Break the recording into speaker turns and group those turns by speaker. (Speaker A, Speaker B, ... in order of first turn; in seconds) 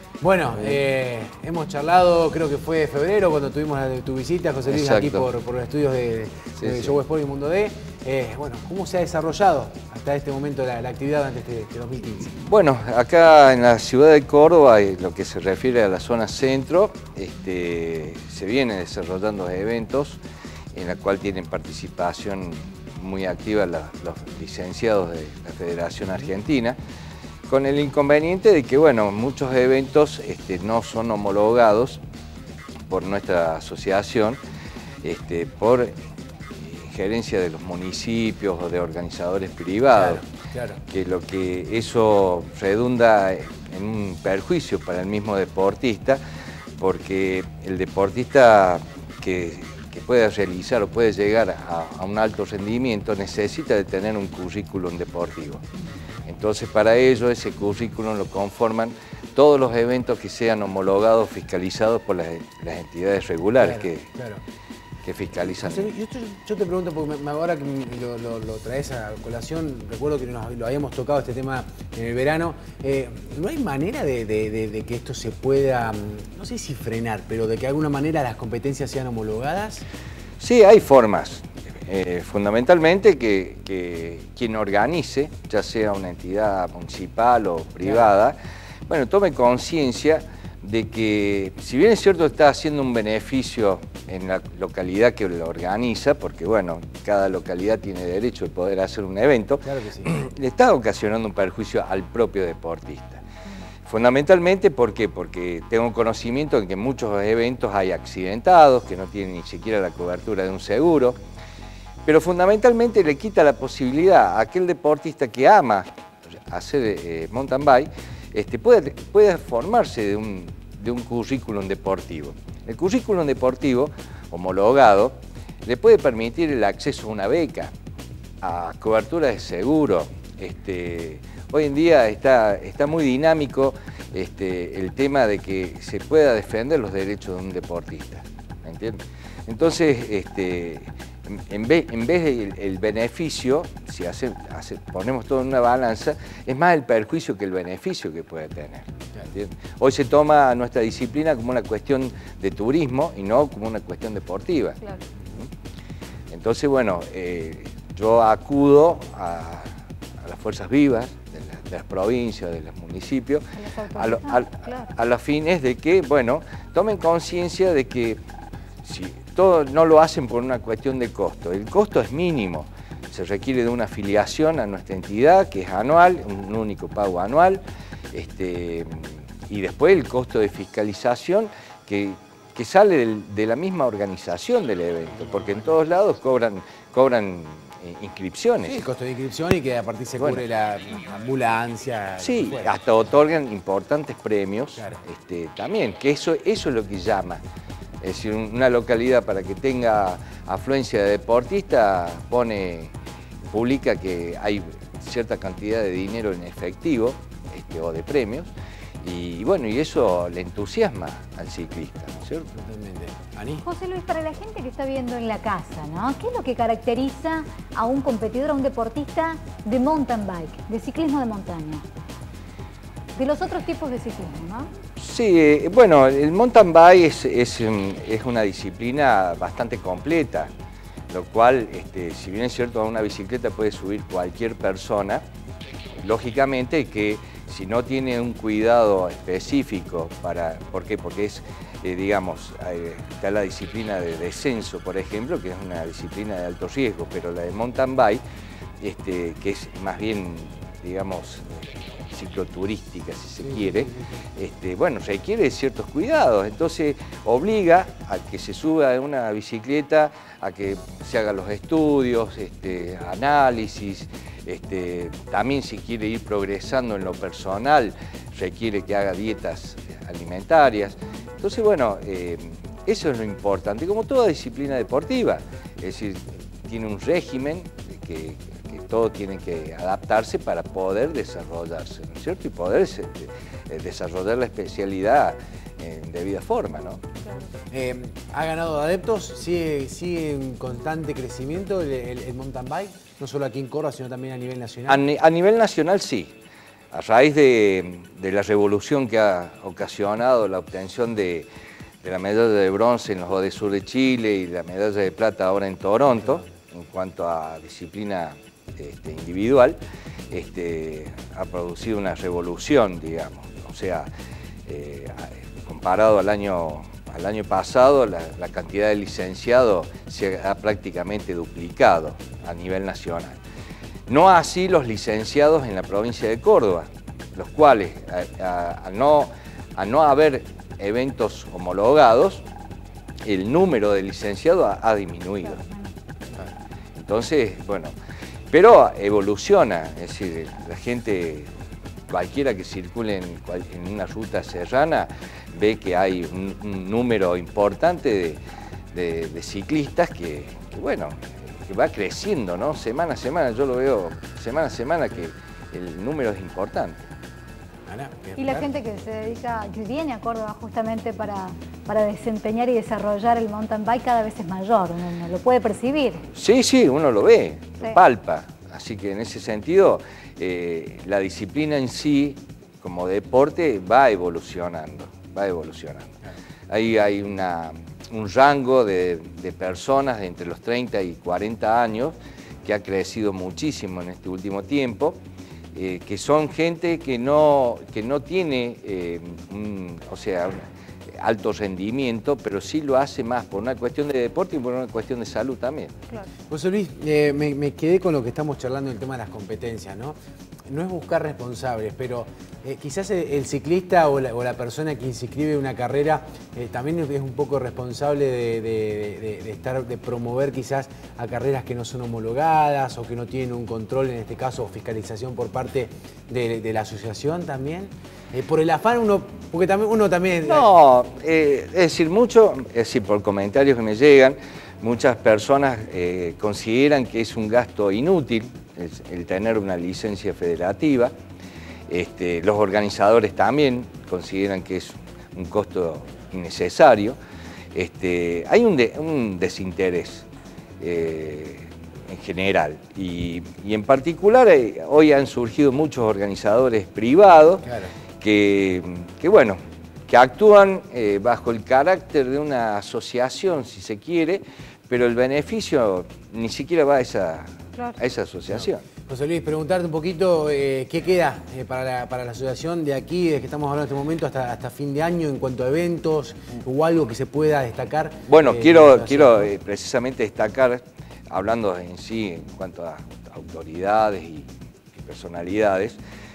Speaker A: 0.2-12.3, 39.9-40.8, 63.6-64.4, 65.4-79.9, 99.6-100.1, 188.6-192.7, 212.5-213.6, 287.7-295.0, 357.9-358.7, 396.5-400.1, 400.7-420.7, 447.6-447.9, 458.5-469.5
Speaker B: 4.7-5.3, 6.6-7.0, 12.3-20.2, 20.7-26.8, 27.5-32.0, 32.9-34.4, 35.0-35.9, 36.6-40.2, 40.9-46.2, 46.8-55.6, 56.2-64.1, 65.0-65.9, 80.4-103.2, 103.8-111.2, 112.0-115.9, 116.5-127.7, 128.4-154.8, 156.3-168.2, 168.8-188.8, 190.2-190.4, 192.2-197.4, 198.0-202.9, 203.5-212.5, 225.0-230.5, 231.1-235.2, 236.0-248.2, 248.8-287.0, 294.9-296.3, 296.9-301.5, 302.0-309.8, 310.3-314.1, 314.6-323.4, 324.1-332.4, 333.2-335.6, 336.9-337.9, 338.5-341.5, 342.1-348.4, 348.9-357.1, 366.3-376.1, 376.7-385.2, 385.7-390.6, 391.2-395.9, 420.4-431.1, 431.9-437.2, 437.7-440.3, 440.8-447.6, 448.2-458.8, 468.3-476.0
Speaker C: 163.5-164.9, 213.6-221.8, 223.2-224.7, 335.4-335.9, 358.4-366.2